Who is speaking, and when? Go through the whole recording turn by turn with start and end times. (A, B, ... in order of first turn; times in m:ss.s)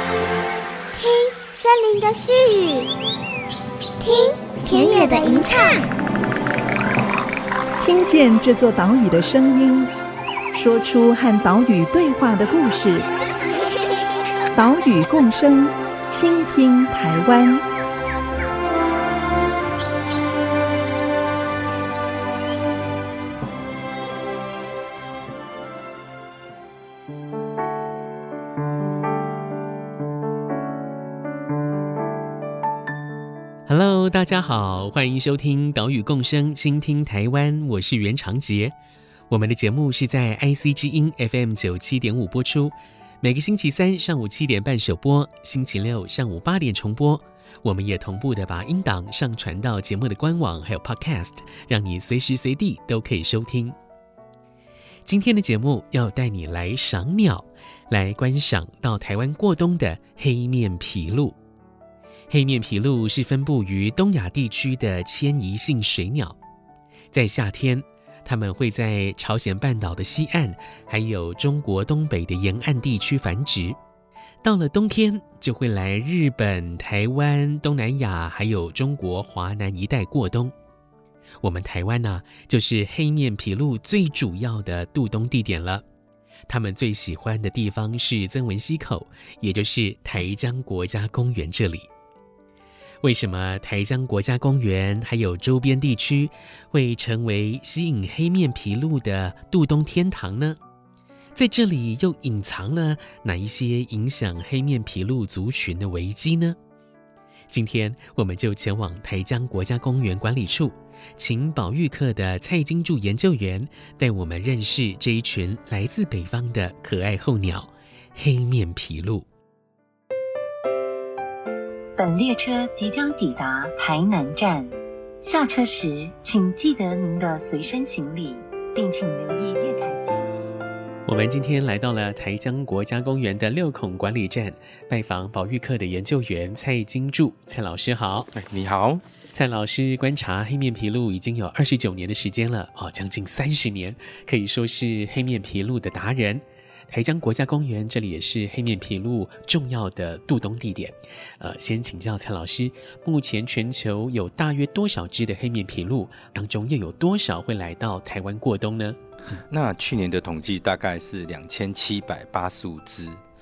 0:00.9-0:02.9 A
0:04.0-0:05.9 A
0:07.8-0:09.9 B
0:10.5-0:13.1 B
0:14.6-0:17.6 B
0:33.7-0:38.7 C
0:39.3-0:53.8 C
0:55.0-1:01.4 C
1:02.3-1:06.4 C
1:07.1-1:13.8 C
1:14.4-1:20.5 C
1:21.4-1:25.8 C
1:26.5-1:31.9 C
1:33.0-1:40.6 C
1:41.3-1:46.6 C
1:47.5-1:59.2 C
2:02.0-2:10.5 D
2:11.0-2:18.3 C
2:18.3-2:19.0 E
2:19.3-2:39.0 C
2:39.5-2:43.2 E